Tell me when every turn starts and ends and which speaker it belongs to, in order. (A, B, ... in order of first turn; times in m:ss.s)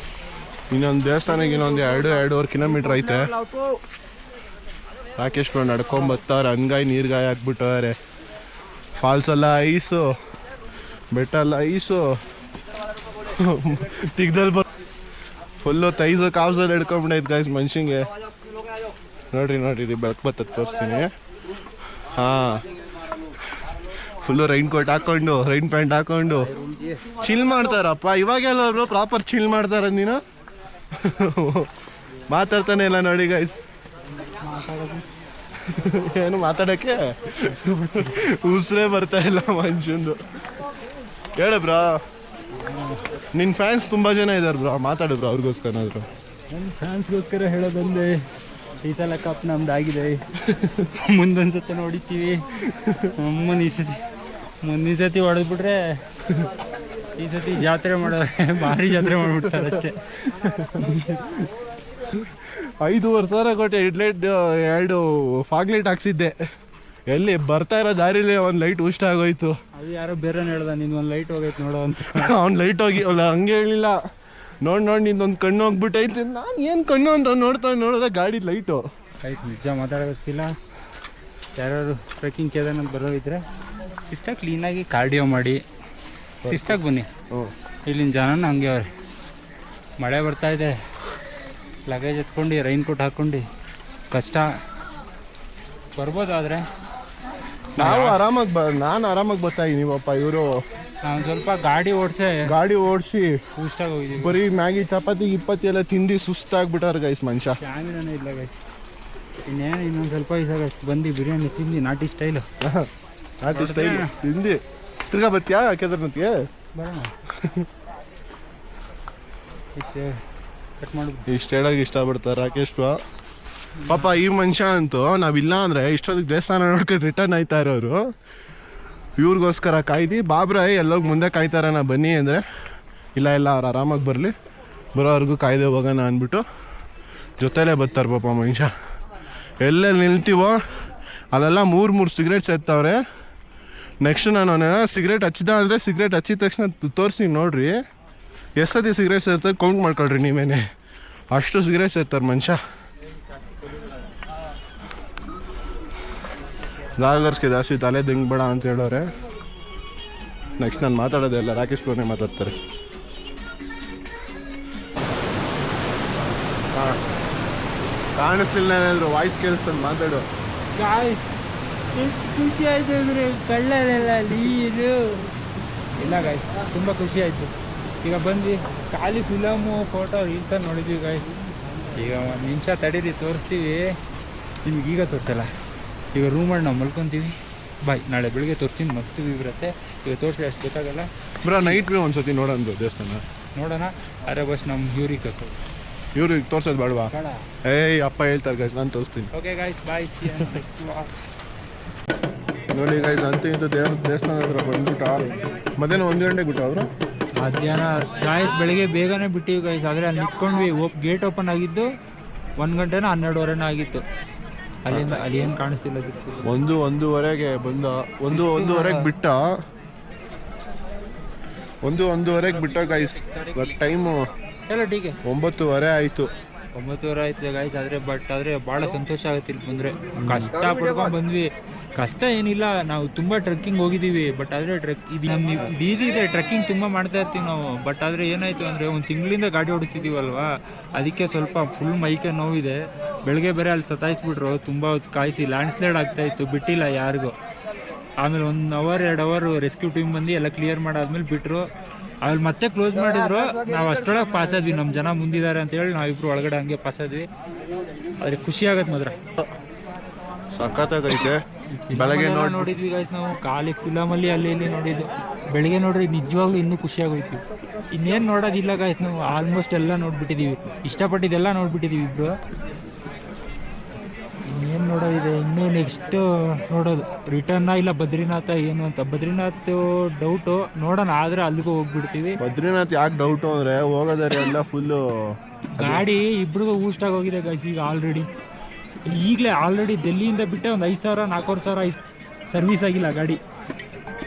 0:00.7-0:03.4 A
0:05.2-0:08.0 A
0:09.0-0:10.2 A
0:11.1-0:12.2 A
0:13.3-0:14.6 A
0:15.6-0:18.1 A
0:19.3-0:21.1 A
0:22.0-0:22.6 A
0:23.6-0:30.2 A
0:30.9-0:31.7 A
0:32.3-0:33.6 A
0:34.4-0:35.1 B
0:35.6-0:40.2 A
0:37.6-0:38.1 B
0:41.4-0:42.0 A
0:42.6-0:43.0 B
0:43.3-0:46.1 A
0:46.5-0:48.2 B
0:48.8-0:52.4 B
0:50.5-0:50.7 A
0:52.7-0:53.1 A
0:53.2-0:54.0 B
0:54.6-0:56.0 B
0:57.2-1:00.0 B
0:58.6-1:01.1 A
1:02.1-1:06.4 A
1:07.1-1:09.6 A
1:09.8-1:12.4 B
1:12.0-1:14.0 A
1:14.6-1:18.8 A
1:19.2-1:20.6 B
1:21.6-1:23.4 B
1:24.0-1:25.6 B
1:26.4-1:26.8 A
1:26.4-1:27.1 B
1:27.9-1:28.9 B
1:30.0-1:30.8 B
1:31.9-1:33.4 B
1:34.1-1:34.5 B
1:36.0-1:36.6 B
1:37.8-1:38.2 B
1:37.8-1:40.6 A
1:41.0-1:42.5 B
1:42.4-1:43.4 A
1:43.6-1:44.4 B
1:44.2-1:47.6 A
1:47.6-1:48.6 B
1:49.5-1:52.5 B
1:52.6-1:52.9 A
1:53.4-1:56.5 A
1:53.5-1:54.2 B
1:56.8-1:57.1 B
1:57.3-1:57.7 A
1:59.8-2:00.2 B
2:00.8-2:01.3 B
2:01.3-2:03.0 A
2:03.8-2:04.1 B
2:03.9-2:08.0 A
2:09.2-2:12.4 A
2:13.2-2:14.3 A
2:15.0-2:16.4 A
2:17.4-2:18.7 A
2:19.6-2:20.6 A
2:21.3-2:23.0 A
2:24.0-2:27.8 A
2:28.6-2:30.6 A
2:31.3-2:32.6 A
2:37.0-2:39.1 A
2:40.6-2:42.5 A
2:46.7-2:47.0 A
2:48.2-2:50.3 A
2:50.7-2:55.3 B
2:55.9-3:01.3 B
3:01.9-3:04.0 B
3:04.6-3:05.6 B
3:06.1-3:11.1 B
3:11.4-3:13.2 A
3:13.5-3:15.6 B
3:16.2-3:17.1 A
3:17.1-3:17.5 B
3:17.6-3:19.3 A
3:19.3-3:21.1 B
3:22.7-3:26.9 A
3:27.4-3:31.9 B
3:32.6-3:34.0 B
3:34.8-3:36.5 B
3:34.9-3:35.3 A
3:36.4-3:39.4 A
3:38.3-3:39.1 B
3:41.8-3:44.3 A
3:44.7-3:45.2 B
3:45.2-3:46.3 A
3:46.8-4:07.4 B
3:50.2-3:50.8 A
4:08.2-4:11.7 B
4:12.2-4:17.3 B
4:18.2-4:19.2 B
4:20.5-4:22.8 A
4:21.8-4:32.4 B
4:34.5-4:42.4 B
4:42.4-4:46.1 A
4:45.8-4:48.3 B
4:49.1-4:53.4 B